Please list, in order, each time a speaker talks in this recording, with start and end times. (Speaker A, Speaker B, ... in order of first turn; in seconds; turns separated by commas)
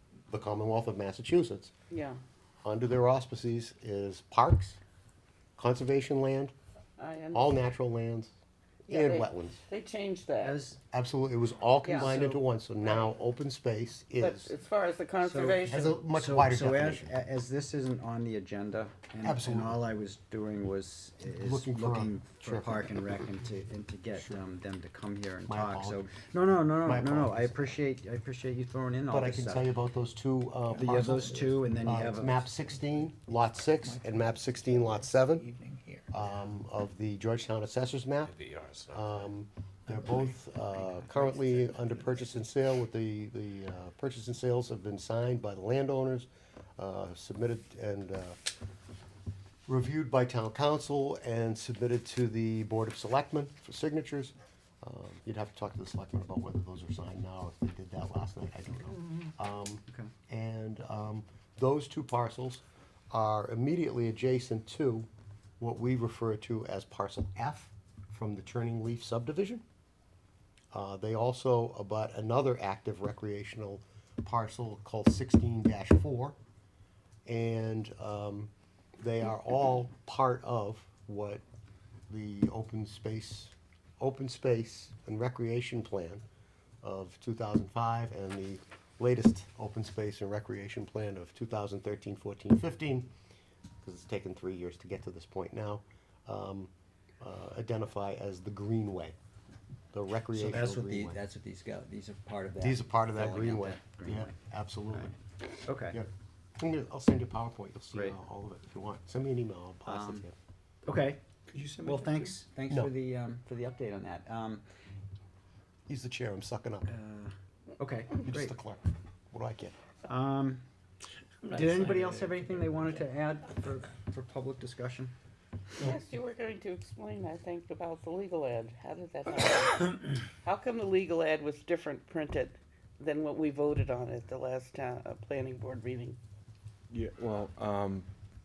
Speaker A: 0.3-1.7, Speaker B: 1.9-2.2, Speaker A: 2.6-4.8, Speaker A: 5.6-6.5, Speaker B: 7.0-7.5, Speaker A: 7.3-8.3, Speaker A: 8.9-9.6, Speaker B: 8.9-10.6, Speaker C: 10.4-10.8, Speaker A: 10.8-14.5, Speaker B: 11.8-12.3, Speaker C: 11.9-12.3, Speaker B: 14.2-15.9, Speaker C: 15.2-29.7, Speaker A: 15.7-17.2, Speaker A: 19.2-19.8, Speaker A: 21.3-22.9, Speaker A: 25.5-26.1, Speaker A: 26.8-27.8, Speaker A: 29.1-35.5, Speaker D: 30.8-31.2, Speaker C: 30.8-32.5, Speaker E: 34.9-35.9, Speaker A: 36.1-48.4, Speaker E: 38.5-38.8, Speaker E: 40.9-42.2, Speaker A: 49.7-65.1, Speaker A: 65.6-69.6, Speaker A: 70.7-76.4, Speaker A: 77.3-81.4, Speaker A: 82.1-86.2, Speaker A: 86.8-93.1, Speaker A: 93.8-99.2, Speaker A: 99.9-101.2, Speaker C: 100.3-104.4, Speaker A: 102.6-105.1, Speaker C: 105.7-106.0, Speaker A: 105.9-110.3, Speaker C: 107.9-108.2, Speaker C: 109.9-110.3, Speaker C: 110.8-111.2, Speaker D: 111.5-112.4, Speaker C: 111.8-114.6, Speaker A: 115.9-116.9, Speaker C: 116.9-118.5, Speaker A: 118.2-119.8, Speaker C: 120.0-120.6, Speaker D: 121.4-123.0, Speaker C: 121.5-125.1, Speaker B: 125.8-136.2, Speaker E: 136.9-138.0